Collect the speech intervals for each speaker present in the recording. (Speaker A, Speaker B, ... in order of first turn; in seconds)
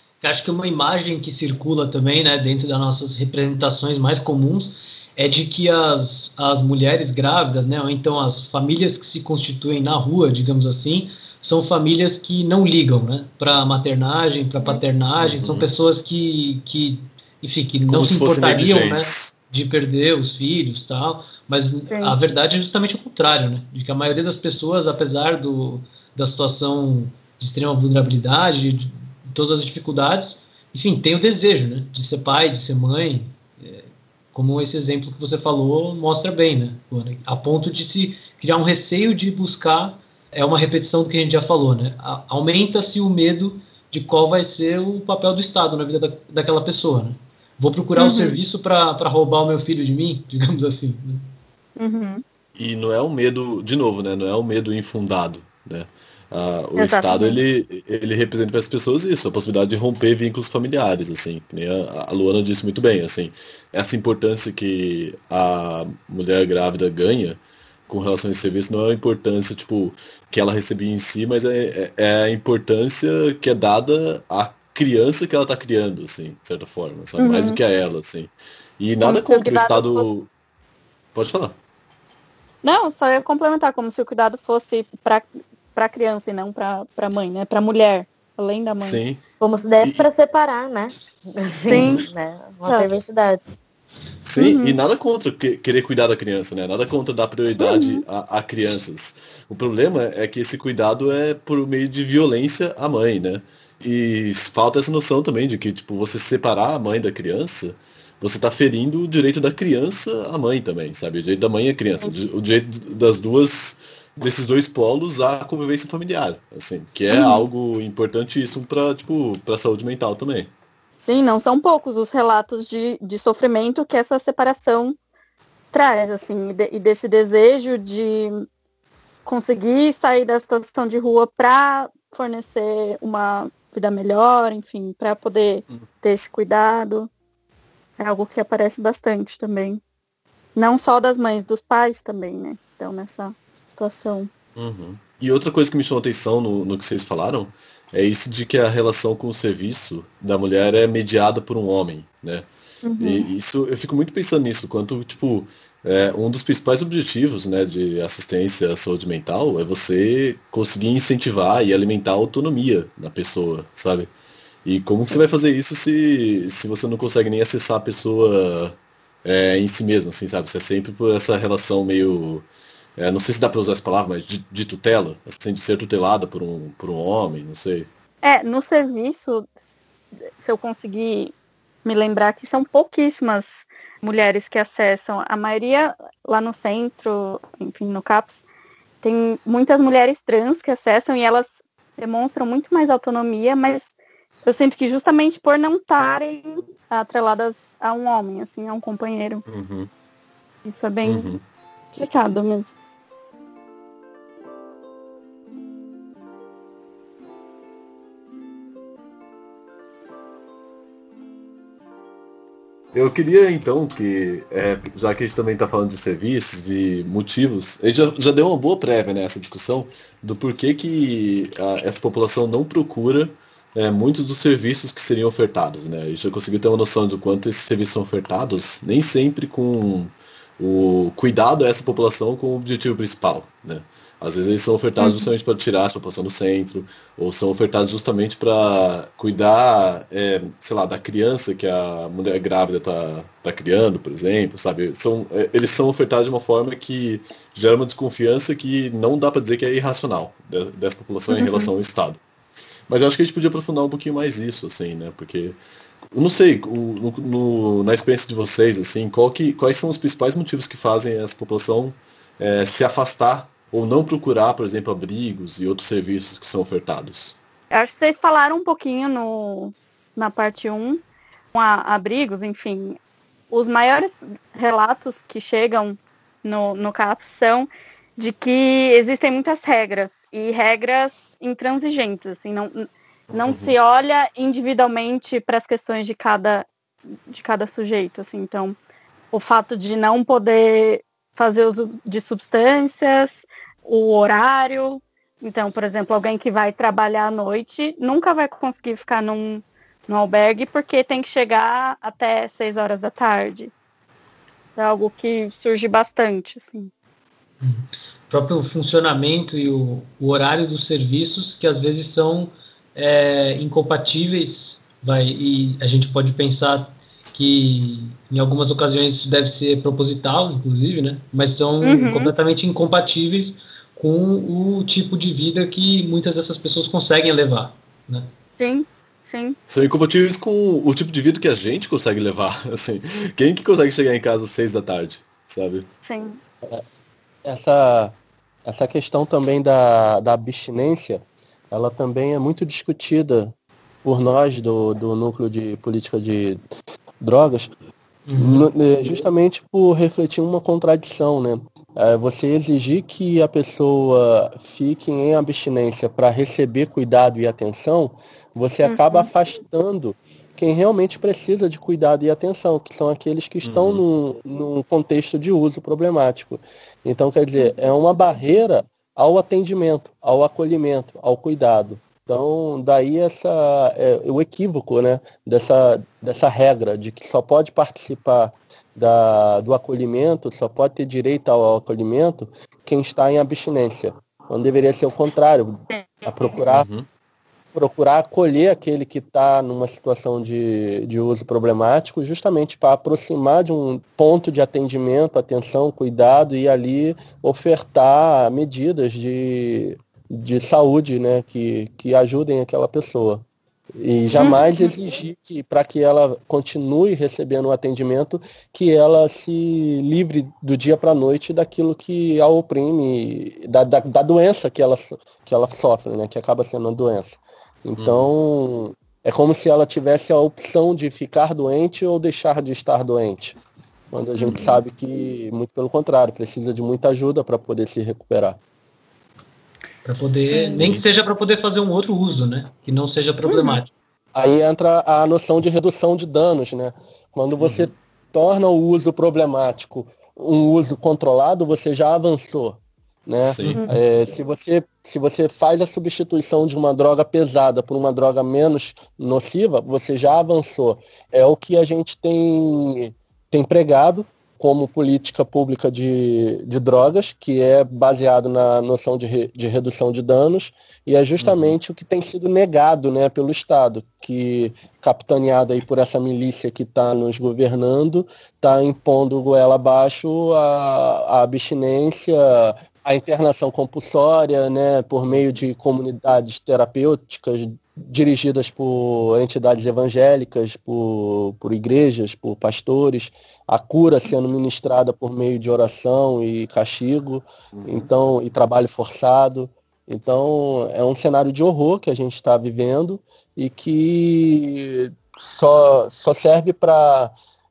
Speaker A: 0.2-51.3, 307.6-328.3, 348.3-348.7, 430.0-433.9
Speaker B: 15.2-15.7, 17.9-19.3, 52.5-80.3, 81.1-81.5, 88.8-89.2, 89.8-90.1, 94.2-120.5, 144.6-152.5, 153.0-164.1, 164.6-177.9, 199.5-199.9, 201.0-201.4, 212.9-252.2, 252.9-255.6, 256.1-267.4, 283.3-283.7, 329.7-335.9, 363.6-364.0, 386.7-387.1, 418.0-418.3, 424.4-424.7, 430.8-431.0, 437.6-437.9, 443.4-443.9, 461.4-461.7, 487.7-488.1
Speaker C: 21.9-22.2, 48.0-48.4, 51.8-52.2, 56.8-57.4, 77.2-77.6, 79.0-80.1, 82.6-89.0, 91.7-92.0, 92.7-93.0, 94.3-94.8, 97.6-98.0, 117.1-117.5, 121.0-125.0, 125.7-128.4, 129.2-137.1, 138.0-139.8, 140.6-144.3, 152.8-153.3, 178.2-179.5, 180.4-181.3, 181.8-188.4, 189.0-193.9, 194.4-199.4, 200.6-201.3, 201.9-202.7, 235.0-235.3, 251.3-251.7, 267.7-271.0, 271.5-273.0, 273.5-286.7, 287.3-288.8, 289.3-303.7, 304.8-306.9, 321.8-322.3, 328.6-329.6, 336.0-336.4, 358.8-359.3, 385.9-386.2, 404.3-404.9, 430.5-430.8, 433.4-433.8
Speaker D: 89.4-93.4
Speaker E: 337.4-346.6, 347.2-347.7, 348.4-386.9, 387.7-403.4, 404.0-423.6, 424.1-428.6, 434.3-497.3